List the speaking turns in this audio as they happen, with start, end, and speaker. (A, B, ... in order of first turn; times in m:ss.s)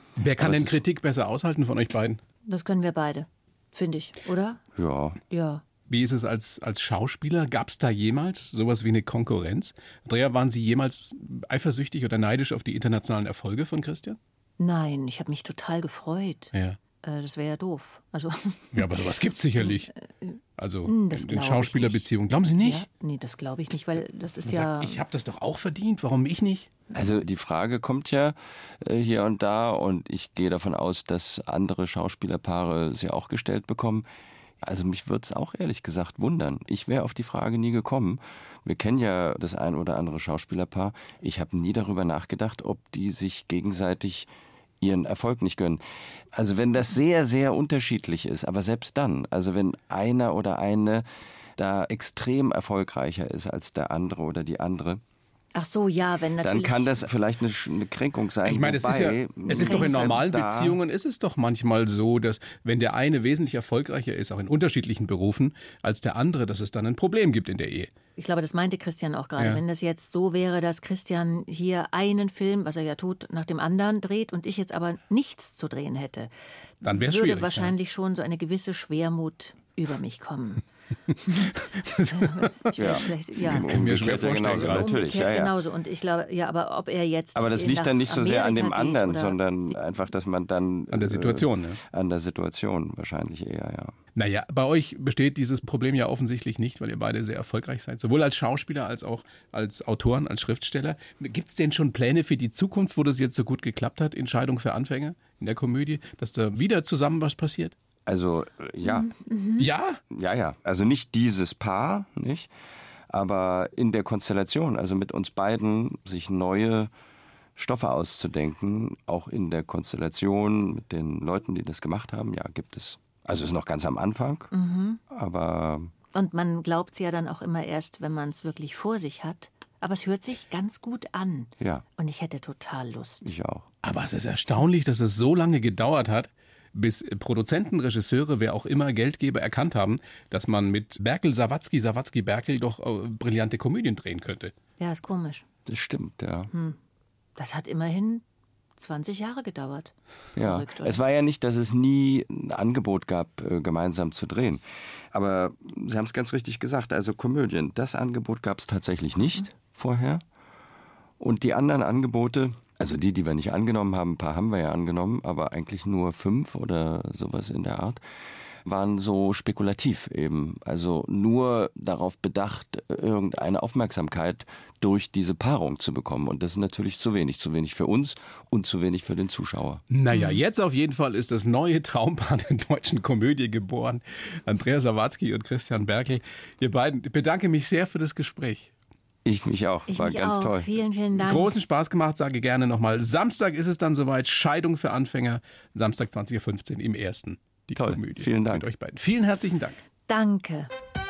0:00.2-0:02.2 A
0:00.4-0:00.8 B
0:02.5-0:04.6 C
0:04.8-0:05.2 B
0:05.3-0:05.6 C
0:05.9-0:14.2 A
0:14.6-0:18.8 C
0:18.7-0:19.9 A
0:19.6-0:22.1 C
0:20.6-0:22.8 A
0:22.6-0:25.0 C
0:24.4-0:26.7 A
0:26.9-0:34.1 B
0:34.6-0:44.3 B
0:44.8-0:51.0 B
0:51.6-0:55.0 B
0:55.6-0:56.9 C
0:56.4-1:00.8 B
0:58.4-1:07.9 A
0:59.6-1:00.2 C
1:08.2-1:16.3 C
1:16.8-1:17.7 A
1:16.8-1:20.6 C
1:21.3-1:23.8 C
1:21.4-1:24.9 A
1:22.8-1:25.5 B
1:24.4-1:29.4 C
1:27.4-1:34.0 B
1:30.9-1:31.8 A
1:34.2-1:47.8 A
1:48.1-1:49.1 B
1:48.8-1:49.7 C
1:49.6-1:50.0 A
1:50.1-1:52.5 B
1:53.1-1:56.9 B
1:57.6-2:04.5 B
2:04.5-2:05.0 C
2:05.1-2:05.9 B
2:06.1-2:13.3 C
2:13.2-2:13.7 B
2:13.8-2:24.5 A
2:24.8-2:25.4 C
2:25.7-2:26.5 B
2:26.5-2:26.8 C
2:27.4-2:28.2 C
2:28.8-2:31.0 C
2:30.4-2:40.2 B
2:41.2-2:48.0 B
2:48.6-2:59.8 B
2:59.9-3:08.7 A
3:00.1-3:00.4 C
3:09.2-3:10.8 B
3:09.9-3:11.5 C
3:11.2-3:19.8 A
3:17.8-3:18.7 B
3:20.1-3:20.7 C